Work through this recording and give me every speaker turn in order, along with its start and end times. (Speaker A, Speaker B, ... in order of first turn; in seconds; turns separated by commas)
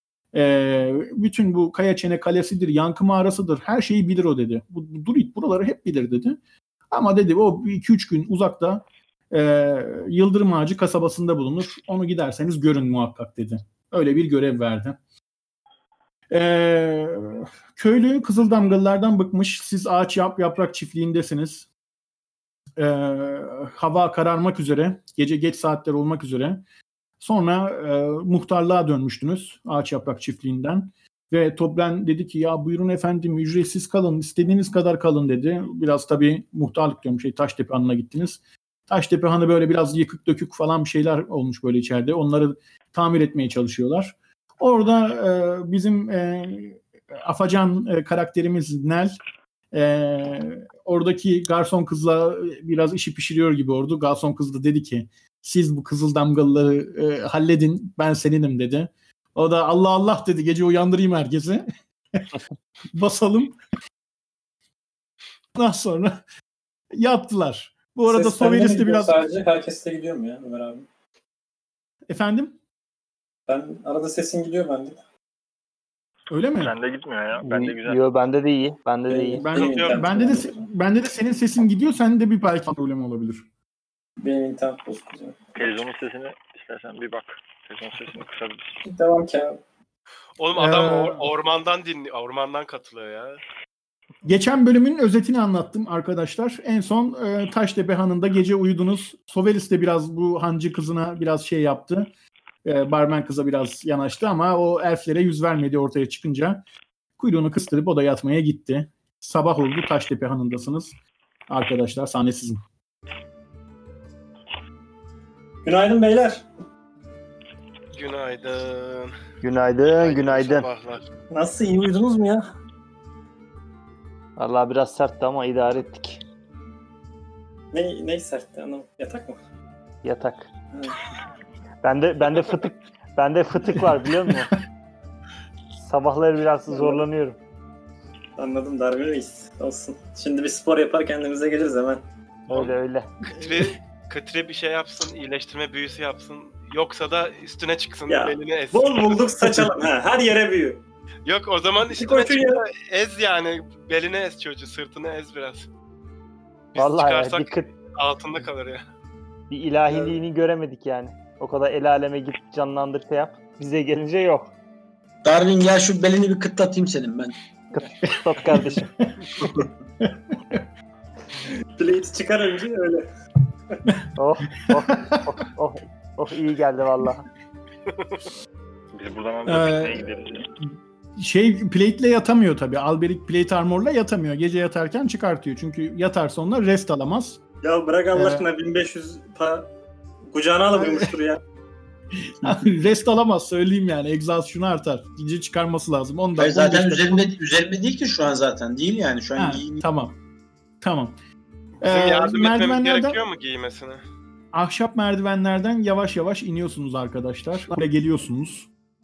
Speaker A: 0.3-6.4, Speaker A: 6.9-15.0, Speaker A: 16.3-21.6, Speaker A: 22.8-26.6, Speaker A: 27.2-49.1, Speaker A: 49.7-61.6, Speaker A: 62.9-63.6, Speaker A: 65.5-66.2, Speaker A: 66.9-69.2, Speaker B: 68.1-70.8, Speaker A: 72.1-72.5, Speaker B: 73.5-75.0, Speaker A: 76.3-76.7, Speaker C: 76.6-78.0, Speaker D: 77.4-79.4, Speaker B: 79.1-80.6, Speaker A: 79.4-83.5, Speaker E: 79.5-80.1, Speaker B: 84.2-85.5, Speaker C: 85.5-88.8, Speaker B: 88.8-89.6, Speaker E: 90.4-93.4, Speaker A: 90.5-91.3, Speaker A: 94.2-102.1, Speaker A: 102.6-106.6, Speaker A: 107.2-110.9, Speaker A: 111.5-112.6, Speaker B: 115.6-116.5, Speaker E: 117.9-119.1, Speaker D: 119.4-120.7, Speaker E: 120.0-121.1, Speaker B: 121.3-122.5, Speaker D: 124.4-126.2, Speaker B: 127.7-129.4, Speaker D: 130.0-130.5, Speaker D: 131.8-134.5, Speaker D: 135.8-137.4, Speaker B: 138.4-142.0, Speaker D: 142.5-143.1, Speaker E: 143.3-149.4, Speaker A: 143.4-143.7, Speaker B: 148.1-150.8, Speaker E: 151.2-155.7, Speaker B: 151.8-152.6, Speaker E: 156.7-158.8, Speaker D: 156.8-157.7, Speaker D: 159.5-164.5, Speaker F: 165.2-167.3, Speaker D: 167.7-168.9, Speaker A: 168.5-170.6, Speaker B: 171.8-173.1, Speaker D: 174.2-177.3, Speaker A: 174.7-175.1, Speaker E: 177.9-178.1, Speaker C: 178.9-180.5, Speaker A: 179.4-180.4, Speaker A: 181.2-187.4, Speaker B: 187.6-189.7, Speaker A: 188.1-188.5, Speaker B: 190.3-191.4, Speaker A: 190.7-191.1, Speaker A: 192.4-197.3, Speaker F: 196.4-199.8, Speaker A: 199.3-200.2, Speaker A: 200.8-201.2, Speaker E: 201.8-204.0, Speaker A: 201.8-203.2, Speaker A: 204.5-208.7